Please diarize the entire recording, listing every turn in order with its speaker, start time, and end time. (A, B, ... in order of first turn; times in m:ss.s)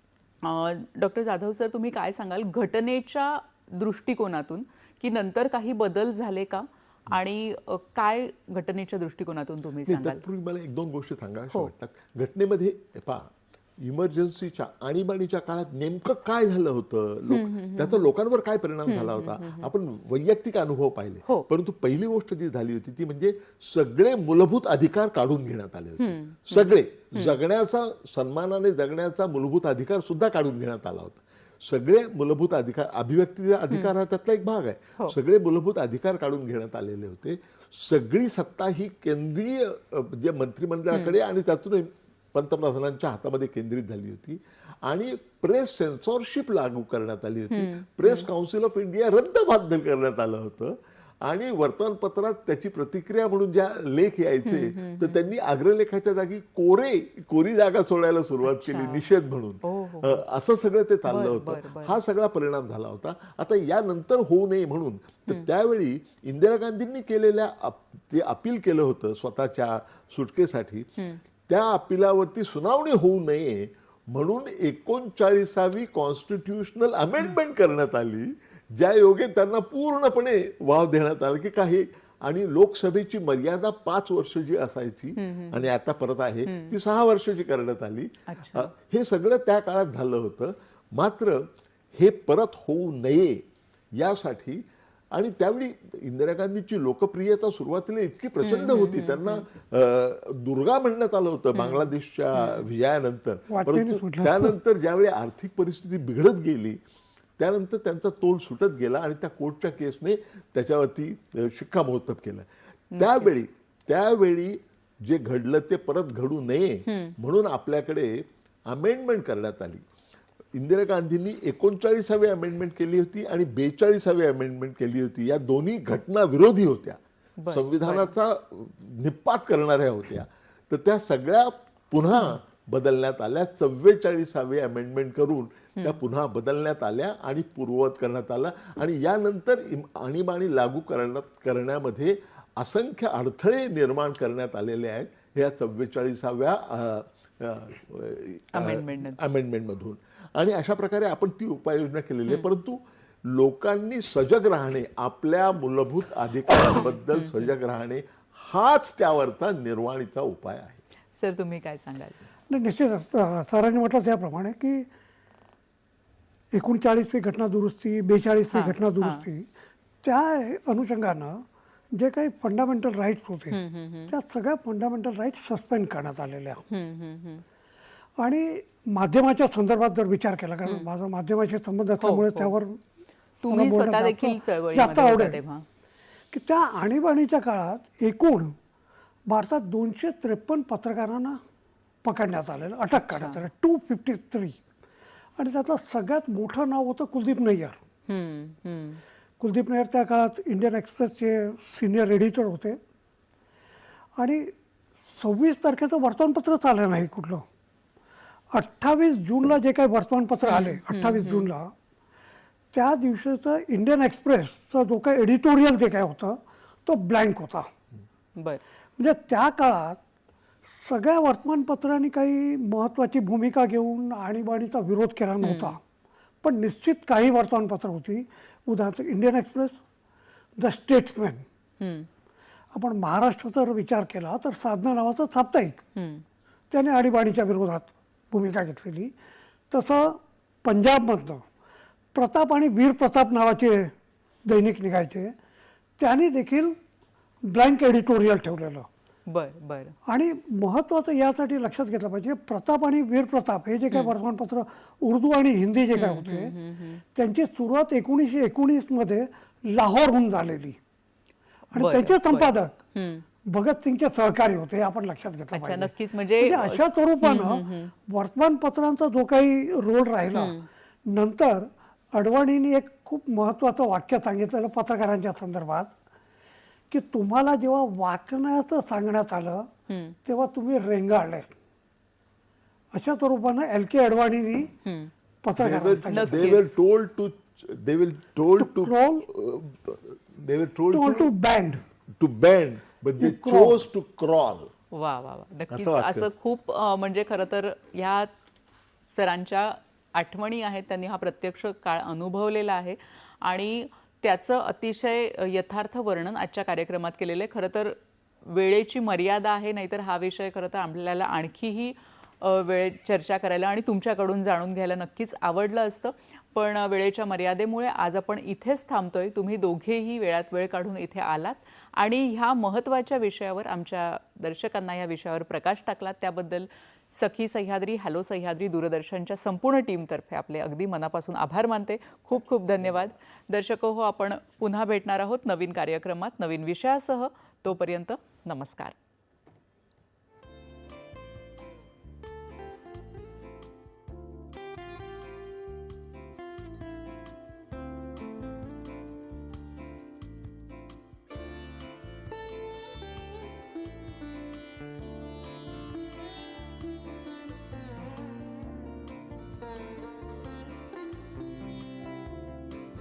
0:00.4-0:10.2 A
0:09.8-1:10.9 B
0:17.3-0:18.1 A
0:18.9-0:19.7 A
0:26.0-0:27.4 A
0:47.5-0:48.3 A
0:54.4-0:55.2 A
0:58.5-0:59.0 A
0:59.6-1:00.2 A
1:01.0-1:02.0 A
1:11.5-1:33.4 B
1:25.2-1:25.7 A
1:26.4-1:26.7 A
1:28.3-1:28.7 A
1:34.0-1:46.8 B
1:38.4-1:39.4 A
1:41.5-1:42.7 A
1:43.5-1:44.5 C
1:47.4-1:59.8 B
1:52.9-1:53.4 A
1:56.9-1:57.2 A
2:00.5-2:40.8 B
2:07.4-2:08.1 A
2:28.5-2:29.2 A
2:36.8-2:37.5 A
2:41.2-2:42.2 A
2:42.5-2:44.9 C
2:46.5-2:49.5 C
2:48.5-2:49.2 A
2:50.0-2:53.6 C
2:53.5-2:54.1 A
2:54.1-2:56.6 C
2:56.7-2:57.4 A
2:58.2-3:02.8 C
3:02.0-3:02.5 A
3:03.4-3:05.6 A
3:03.5-3:05.4 C
3:06.3-3:08.5 C
3:09.3-3:11.4 C
3:12.0-3:14.6 C
3:13.0-3:13.4 A
3:15.4-3:17.8 C
3:18.1-3:19.0 A
3:19.4-3:22.8 C
3:24.2-3:24.5 C
3:25.0-3:27.4 C
3:28.5-3:31.7 C
3:30.4-3:31.5 A
3:32.7-3:37.7 C
3:39.0-3:40.0 C
3:40.7-3:45.8 C
3:45.4-3:45.8 A
3:46.4-3:49.8 C
3:50.6-3:51.4 C
3:51.8-3:52.1 A
3:52.7-3:55.8 C
3:56.0-3:56.2 A
3:56.7-3:59.1 C
3:59.7-4:01.4 C
4:02.1-4:03.9 C
4:04.5-4:05.3 C
4:06.0-4:06.8 C
4:07.5-4:08.9 C
4:09.3-4:09.9 A
4:10.1-4:16.5 C
4:15.9-4:17.0 A
4:17.1-4:20.8 C
4:21.7-4:22.7 C
4:21.8-4:23.2 A
4:23.4-4:30.5 C
4:25.5-4:27.9 A
4:30.3-4:30.6 A
4:31.1-4:35.9 C
4:36.9-4:39.7 C
4:39.9-4:40.2 A
4:40.2-4:41.5 C
4:42.9-4:44.7 C
4:44.8-4:45.1 A
4:45.4-4:46.5 C
4:45.6-4:51.3 B
4:46.1-4:46.7 A
4:48.6-4:49.3 C
4:50.9-4:51.8 C
4:52.2-4:54.7 B
4:53.2-4:53.8 C
4:54.9-4:58.3 A
4:55.7-4:56.3 B
4:59.1-5:38.9 A